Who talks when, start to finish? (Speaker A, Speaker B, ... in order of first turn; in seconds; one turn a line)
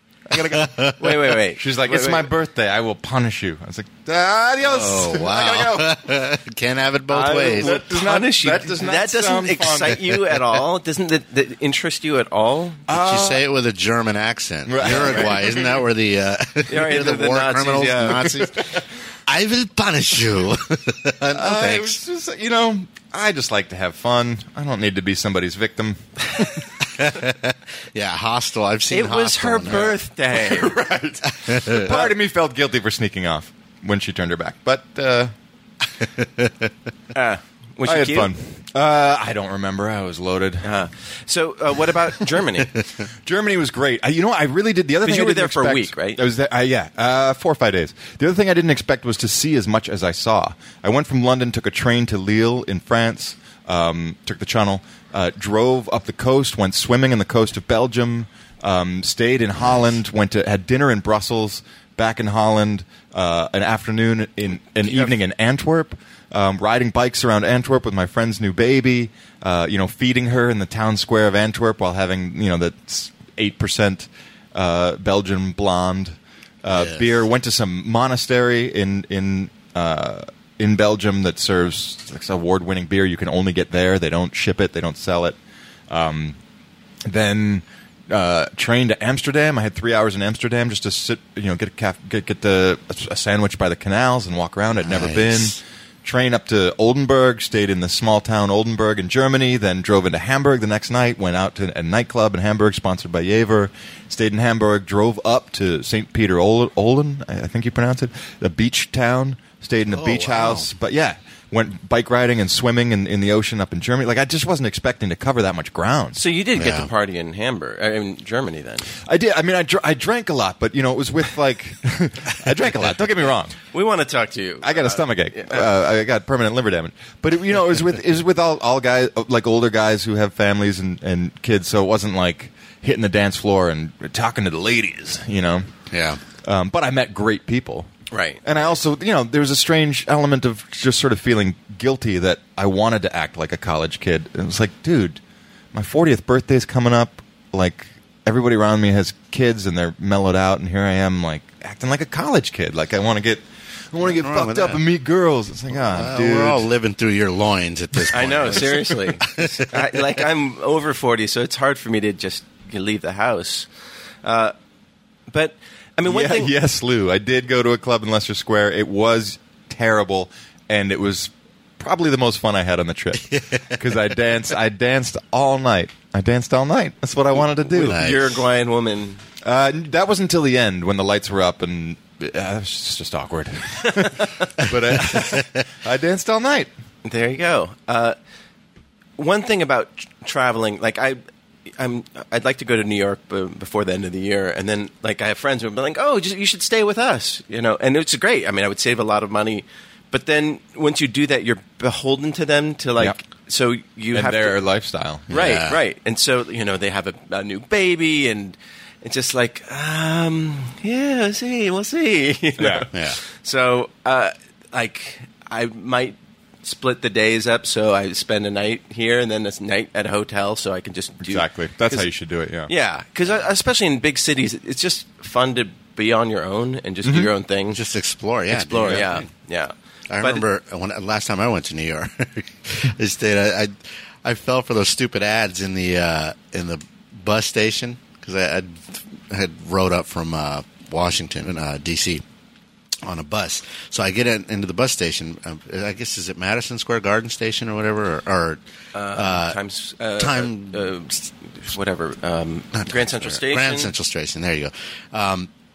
Speaker A: 0.3-1.0
Speaker B: 0.3-0.9
Speaker C: 1.0-2.3
Speaker A: 1.6-6.0
Speaker B: 4.6-7.8
Speaker C: 7.1-12.8
Speaker A: 7.5-10.1
Speaker A: 12.9-13.4
Speaker B: 12.9-22.0
Speaker A: 14.7-15.8
Speaker C: 14.9-15.3
Speaker C: 16.7-18.4
Speaker A: 21.3-26.7
Speaker B: 26.8-29.9
Speaker C: 28.9-30.7
Speaker A: 29.7-35.3
Speaker B: 31.4-32.1
Speaker B: 36.0-36.7
Speaker C: 37.1-38.3
Speaker A: 37.8-40.7
Speaker C: 40.6-42.7
Speaker A: 43.2-85.4
Speaker C: 45.0-46.2
Speaker C: 64.8-65.1
Speaker B: 76.7-77.1
Speaker A: 85.9-86.4
Speaker A: 87.1-116.2
Speaker B: 94.7-95.6
Speaker B: 109.9-110.7
Speaker C: 116.1-118.9
Speaker B: 116.6-116.9
Speaker A: 119.0-123.6
Speaker C: 123.7-125.7
Speaker A: 124.6-135.7
Speaker B: 135.9-136.2
Speaker A: 136.4-137.9
Speaker C: 138.1-138.4
Speaker A: 138.4-145.2
Speaker A: 145.7-156.6
Speaker B: 154.0-154.8
Speaker B: 155.7-159.9
Speaker C: 158.1-163.7
Speaker C: 164.2-164.5
Speaker C: 165.3-166.5
Speaker A: 166.1-178.0
Speaker B: 173.3-173.8
Speaker C: 177.6-179.2
Speaker B: 177.8-178.4
Speaker A: 179.4-186.7
Speaker B: 185.1-185.4
Speaker C: 187.1-188.2
Speaker C: 189.2-191.2
Speaker C: 191.8-204.6
Speaker A: 204.1-205.2
Speaker C: 205.3-222.1
Speaker B: 205.3-205.8
Speaker A: 212.6-212.9
Speaker A: 221.2-222.7
Speaker C: 222.7-227.8
Speaker A: 227.0-227.3
Speaker B: 227.7-229.3
Speaker C: 228.5-230.4
Speaker B: 230.1-242.2
Speaker B: 243.0-249.6
Speaker C: 248.9-253.9
Speaker B: 250.2-251.3
Speaker B: 252.7-255.5